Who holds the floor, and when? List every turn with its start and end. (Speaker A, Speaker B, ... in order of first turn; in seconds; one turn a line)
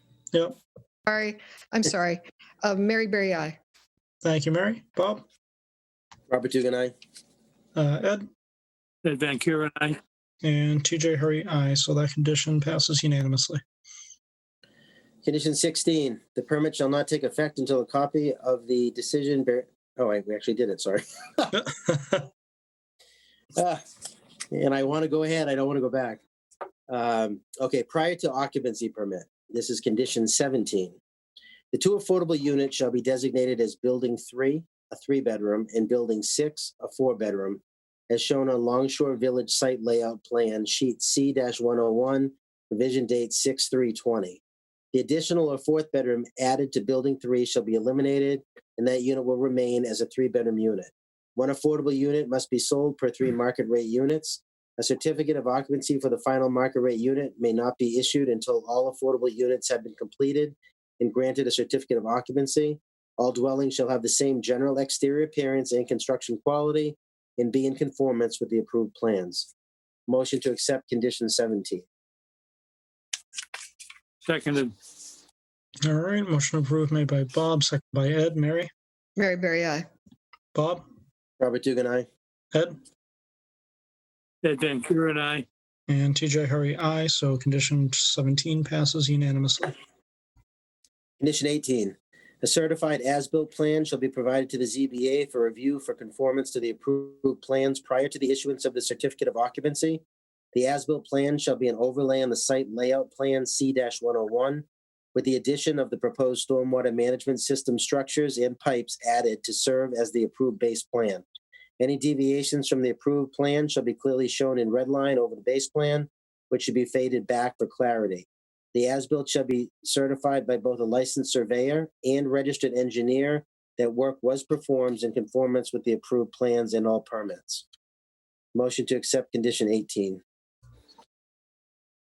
Speaker A: 1.1-3.6
Speaker B: 4.2-5.2
Speaker C: 6.3-6.9
Speaker B: 7.8-8.2
Speaker D: 9.1-10.0
Speaker B: 10.4-13.6
Speaker C: 15.2-21.5
Speaker B: 21.6-22.3
Speaker C: 23.6-23.8
Speaker C: 24.5-26.2
Speaker C: 26.9-31.0
Speaker C: 31.7-44.4
Speaker C: 44.9-69.5
Speaker C: 70.1-71.9
Speaker D: 74.2-74.7
Speaker B: 75.9-78.7
Speaker A: 79.2-79.8
Speaker B: 80.5-80.8
Speaker C: 81.4-82.1
Speaker D: 84.4-85.5
Speaker B: 85.9-89.7
Speaker C: 91.2-100.0
Speaker C: 100.5-111.2
Speaker C: 111.8-127.7
Speaker C: 128.5-130.2